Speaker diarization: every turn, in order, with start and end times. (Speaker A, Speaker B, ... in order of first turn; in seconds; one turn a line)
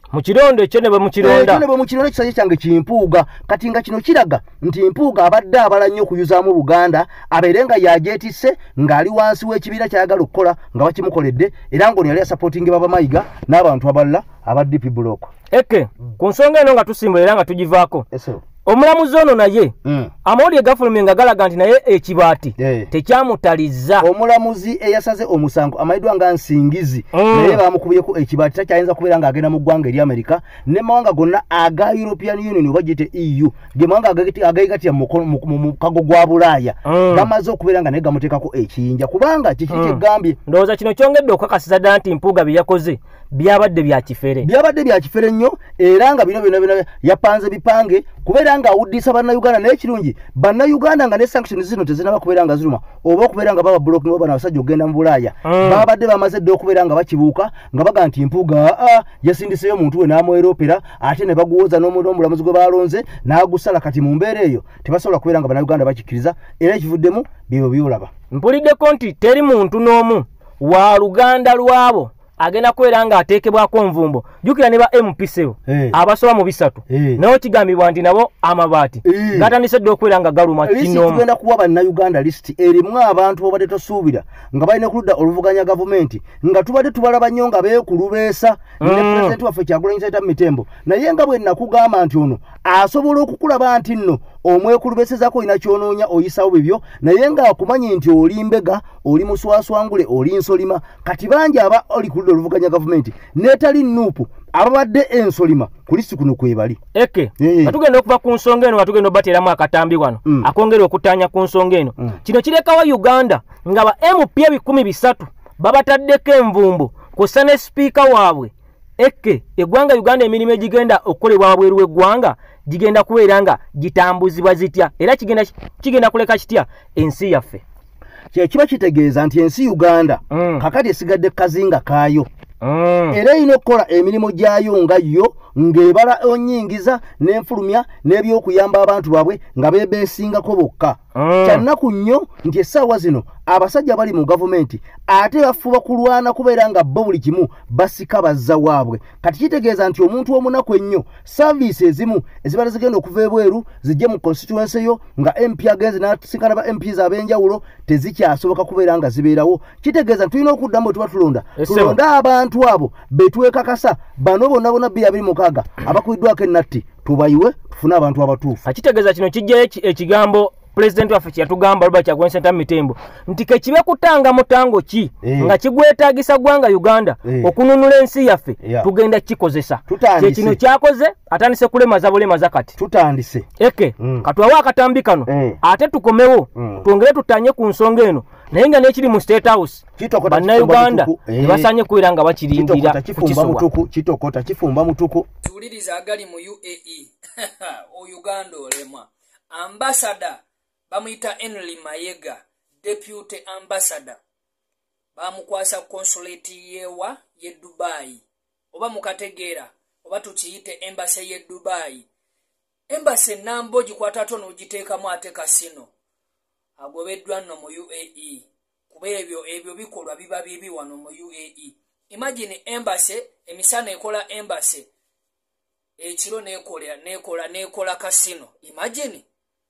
Speaker A: 0.1-1.6
Speaker B: 1.2-15.3
Speaker A: 15.5-18.0
Speaker B: 18.1-18.4
Speaker A: 18.6-19.7
Speaker B: 19.8-20.1
Speaker A: 20.2-24.1
Speaker B: 22.6-22.9
Speaker B: 24.0-40.4
Speaker A: 27.1-27.6
Speaker A: 36.9-37.3
Speaker A: 39.7-44.5
Speaker B: 44.4-68.1
Speaker A: 55.4-55.8
Speaker A: 68.3-81.2
Speaker B: 75.7-75.9
Speaker B: 76.9-77.2
Speaker B: 79.0-79.5
Speaker B: 80.6-106.8
Speaker A: 88.8-89.3
Speaker A: 106.9-127.6
Speaker B: 107.4-107.8
Speaker B: 128.3-132.3
Speaker A: 130.3-130.6
Speaker A: 132.6-133.2
Speaker B: 133.1-168.6
Speaker A: 141.1-141.6
Speaker A: 161.6-162.0
Speaker A: 168.6-182.7
Speaker B: 175.2-175.5
Speaker B: 177.2-177.5
Speaker B: 178.6-178.9
Speaker B: 179.9-180.6
Speaker B: 182.8-183.4
Speaker A: 183.6-193.6
Speaker B: 184.0-184.2
Speaker B: 185.3-185.6
Speaker B: 186.5-186.8
Speaker B: 190.0-191.7
Speaker B: 192.5-195.3
Speaker C: 195.4-204.2
Speaker C: 205.2-208.2
Speaker C: 208.7-212.1
Speaker C: 212.9-215.9
Speaker C: 216.8-224.8
Speaker C: 226.0-229.2